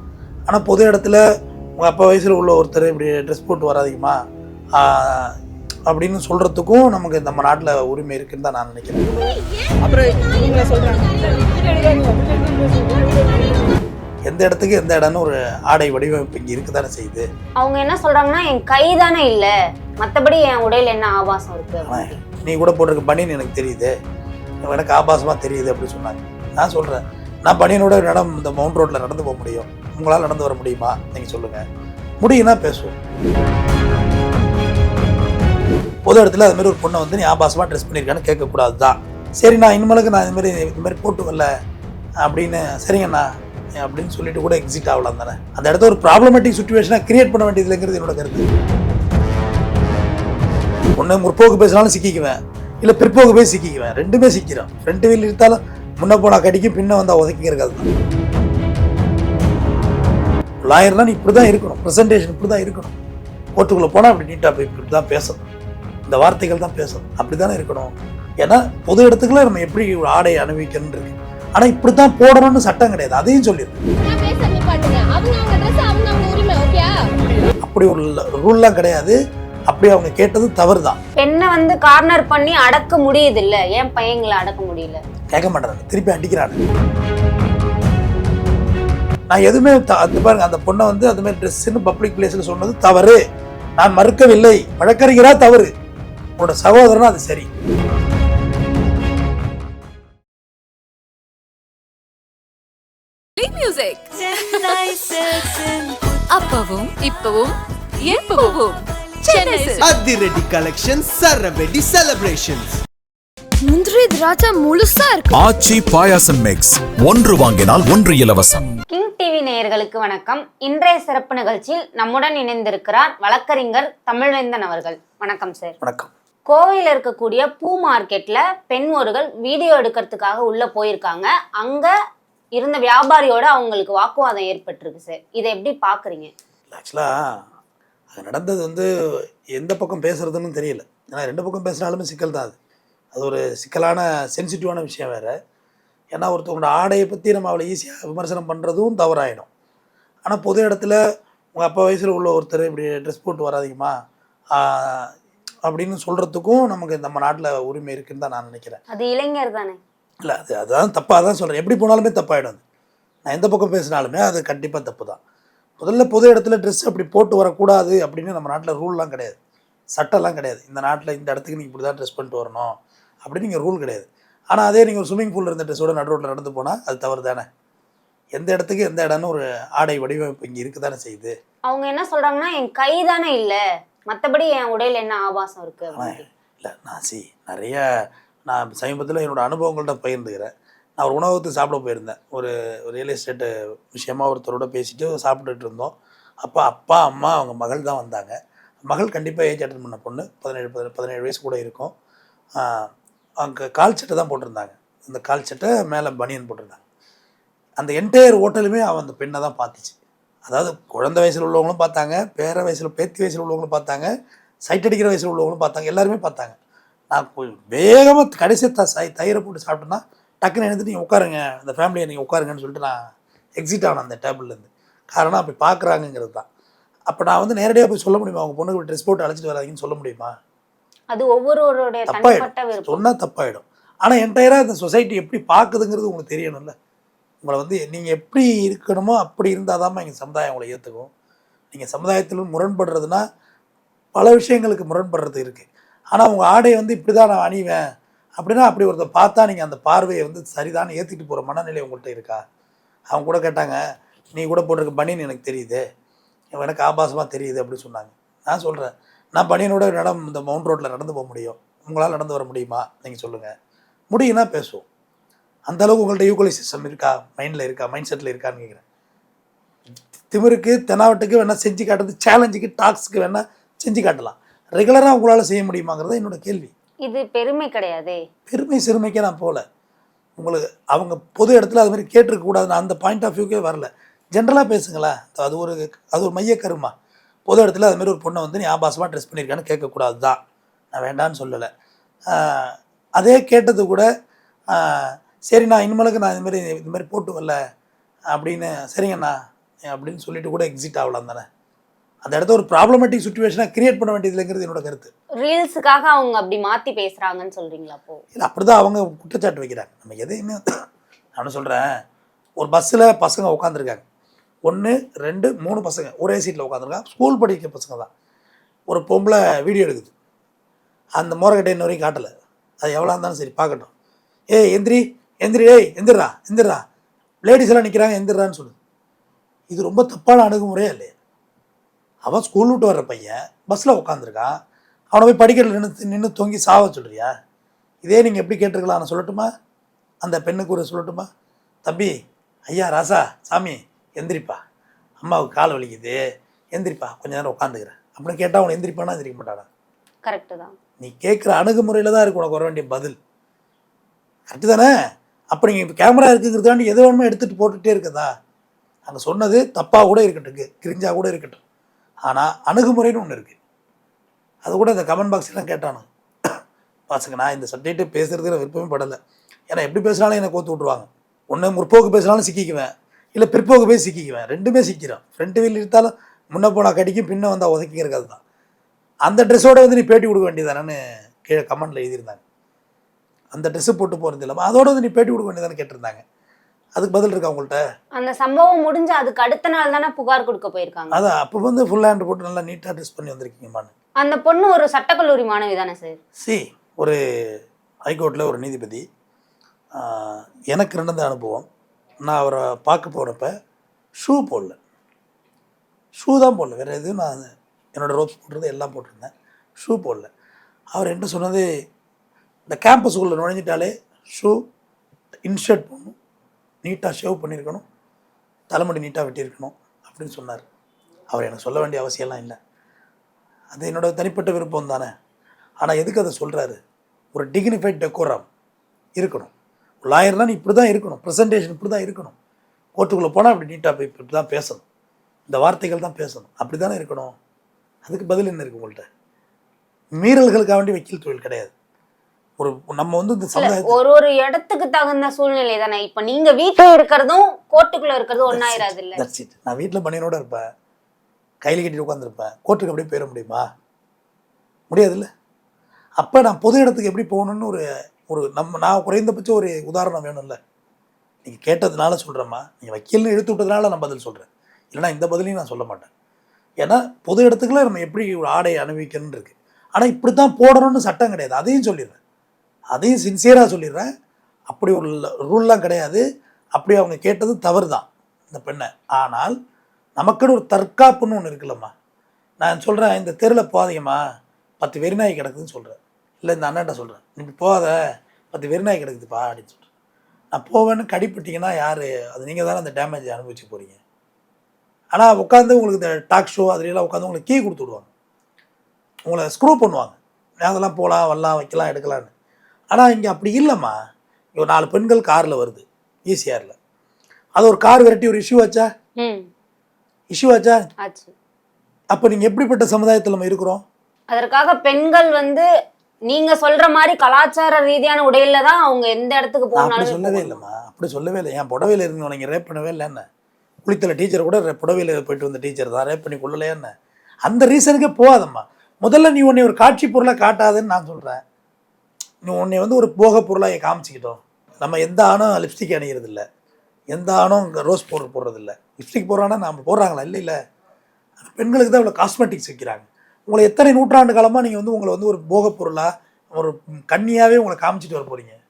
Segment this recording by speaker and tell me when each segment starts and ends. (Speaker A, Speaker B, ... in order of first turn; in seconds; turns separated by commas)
Speaker A: 0.5-1.2, Speaker A: 1.8-4.2, Speaker A: 4.8-5.3, Speaker A: 5.9-9.1, Speaker B: 9.8-13.6, Speaker A: 14.3-17.3, Speaker C: 17.6-22.1, Speaker A: 21.9-23.9, Speaker A: 24.6-31.6, Speaker A: 32.2-33.0, Speaker A: 36.1-41.5, Speaker A: 42.2-48.5, Speaker A: 51.0-57.9, Speaker A: 60.6-63.0, Speaker A: 63.6-65.4, Speaker A: 66.1-73.8, Speaker B: 74.0-77.1, Speaker A: 77.6-79.2, Speaker A: 79.7-81.0, Speaker C: 81.2-85.0, Speaker A: 85.3-86.6, Speaker A: 89.3-93.2, Speaker A: 93.8-95.7, Speaker A: 96.4-97.5, Speaker D: 103.4-109.9, Speaker E: 109.8-112.7, Speaker B: 113.7-115.3, Speaker F: 115.3-118.8, Speaker C: 118.9-125.7, Speaker A: 125.8-126.1, Speaker C: 126.5-131.9, Speaker C: 132.6-136.3, Speaker A: 136.7-137.4, Speaker A: 138.1-138.9, Speaker A: 139.5-142.6, Speaker A: 143.1-145.4, Speaker A: 146.1-149.5, Speaker A: 150.2-151.0, Speaker A: 151.6-153.9, Speaker A: 154.5-155.1, Speaker A: 155.7-158.8, Speaker C: 158.9-159.8, Speaker A: 160.2-162.6, Speaker A: 163.3-165.2, Speaker A: 165.8-169.4, Speaker A: 169.9-177.5, Speaker A: 178.3-181.3, Speaker C: 181.7-183.6, Speaker C: 184.1-186.2, Speaker A: 185.9-187.8, Speaker A: 188.5-198.3, Speaker A: 198.9-201.9, Speaker A: 202.6-202.9, Speaker A: 203.4-206.8, Speaker A: 207.8-214.1, Speaker A: 214.7-216.6, Speaker A: 217.1-223.0, Speaker A: 223.6-226.5, Speaker A: 227.1-230.3, Speaker C: 231.1-233.0, Speaker A: 232.1-236.7, Speaker A: 237.4-241.1, Speaker A: 241.7-243.2, Speaker A: 244.2-247.8, Speaker A: 248.4-252.4, Speaker A: 253.1-253.8, Speaker A: 254.3-255.8, Speaker A: 256.6-263.5, Speaker A: 264.1-264.9, Speaker A: 265.7-268.8, Speaker A: 270.3-276.7, Speaker C: 277.1-278.2, Speaker A: 278.5-279.6, Speaker A: 280.4-286.9, Speaker A: 287.5-290.4, Speaker A: 290.9-291.7, Speaker A: 292.3-294.1, Speaker A: 294.7-297.6, Speaker A: 298.3-301.5, Speaker A: 302.2-305.1, Speaker C: 305.4-308.2, Speaker A: 308.4-310.8, Speaker A: 311.4-311.9, Speaker A: 312.6-314.0, Speaker A: 314.7-318.1, Speaker A: 318.9-320.1, Speaker A: 321.2-322.3, Speaker A: 322.8-323.9, Speaker A: 324.5-326.8, Speaker A: 327.4-328.8, Speaker A: 329.7-331.1, Speaker A: 332.3-334.6, Speaker A: 335.1-337.3, Speaker A: 338.0-339.5, Speaker A: 340.2-341.3, Speaker A: 341.9-342.1, Speaker A: 342.7-344.6, Speaker A: 345.2-346.2, Speaker A: 346.7-349.7, Speaker C: 350.3-350.7, Speaker A: 351.0-353.2, Speaker A: 354.5-354.9, Speaker A: 355.5-358.3, Speaker A: 359.1-361.6, Speaker A: 362.3-363.6, Speaker A: 364.6-366.6, Speaker A: 367.1-369.2, Speaker A: 369.7-378.4, Speaker A: 379.3-382.4, Speaker A: 383.5-386.2, Speaker A: 387.0-387.8, Speaker C: 388.2-391.2, Speaker A: 391.1-393.9, Speaker C: 394.2-396.2, Speaker A: 396.4-397.2, Speaker A: 398.1-399.1, Speaker A: 400.0-401.7, Speaker A: 402.2-403.5, Speaker A: 404.2-404.8, Speaker A: 406.2-410.3, Speaker A: 410.9-411.6, Speaker A: 412.7-414.6, Speaker A: 415.4-416.1, Speaker A: 416.8-417.8, Speaker A: 418.7-420.6, Speaker A: 421.3-422.6, Speaker A: 423.7-425.1, Speaker A: 425.8-426.8, Speaker A: 427.3-428.5, Speaker A: 429.2-429.5, Speaker A: 430.0-432.3, Speaker A: 433.0-434.8, Speaker A: 435.5-437.3, Speaker A: 438.1-439.1, Speaker A: 440.2-441.7, Speaker A: 442.6-443.9, Speaker C: 443.6-449.2, Speaker A: 448.5-450.6, Speaker A: 451.6-453.6, Speaker A: 454.9-455.3, Speaker A: 456.2-460.6, Speaker A: 461.4-466.1, Speaker A: 466.8-472.2, Speaker A: 472.9-474.1, Speaker A: 474.7-476.2, Speaker A: 476.8-479.6, Speaker A: 480.2-481.9, Speaker A: 482.6-484.2, Speaker A: 484.8-487.9, Speaker A: 488.5-489.8, Speaker A: 490.5-494.0, Speaker A: 495.1-498.1, Speaker A: 499.3-502.3, Speaker A: 502.9-504.0, Speaker A: 504.6-506.8, Speaker A: 507.6-508.9, Speaker C: 509.2-509.5, Speaker A: 510.3-510.9, Speaker C: 511.0-511.3, Speaker A: 512.1-513.8, Speaker C: 514.3-515.7, Speaker C: 516.3-520.6, Speaker A: 519.8-523.2, Speaker A: 523.9-526.9, Speaker A: 527.5-531.4, Speaker A: 532.4-536.4, Speaker A: 537.1-540.5, Speaker A: 541.4-548.6